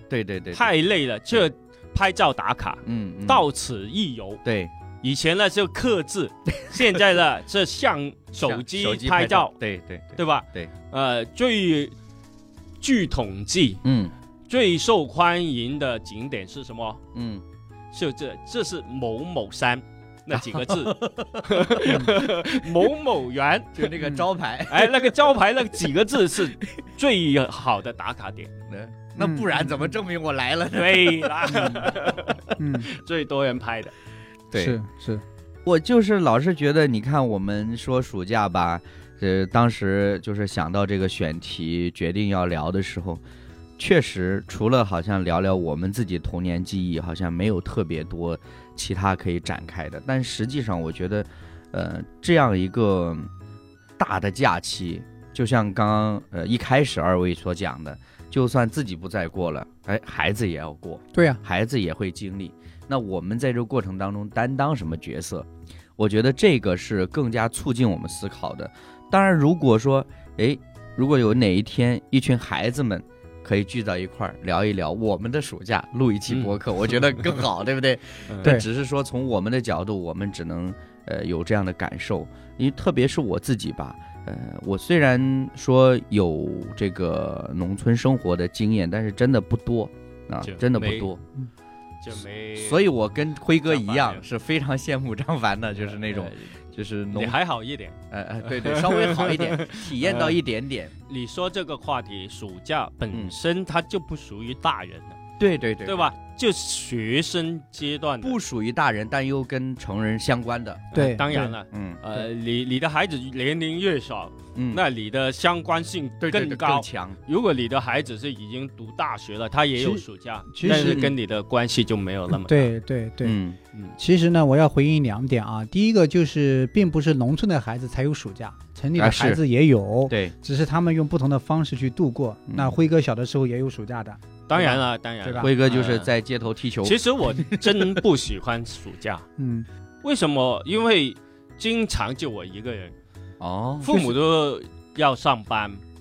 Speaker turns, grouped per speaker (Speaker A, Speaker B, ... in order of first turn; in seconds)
Speaker A: 0.1-0.7, 2.9-3.5, 4.4-4.7, 8.4-10.7, 13.8-14.1, 17.1-17.4, 20.3-22.7, 23.8-25.1, 28.7-32.3, 35.6-43.2, 43.8-53.3, 54.0-91.2, 92.6-97.4, 98.1-100.9, 105.4-106.1, 108.2-110.9, 111.7-112.0, 114.6-114.8, 116.2-117.2, 120.7-121.2, 123.2-123.6, 129.0-129.4, 135.4-138.0, 143.4-144.0
Speaker B: 0.5-4.4, 5.0-9.6, 10.2-11.9, 12.8-13.8, 14.5-17.0, 17.9-24.0, 24.7-28.5, 30.7-33.9, 76.3-76.5, 90.4-91.1, 92.0-92.9, 93.7-94.2, 95.8-96.5, 97.1-100.4, 101.1-105.2, 105.8-108.4, 110.9-122.7, 134.5-136.1, 136.8-139.3, 140.0-142.9, 143.8-145.8
Speaker C: 21.9-22.1, 29.2-29.8, 31.5-31.8, 32.6-32.9, 34.5-35.2, 61.1-61.4, 110.9-111.5, 119.8-121.0, 122.3-123.4, 124.0-135.5, 139.4-139.7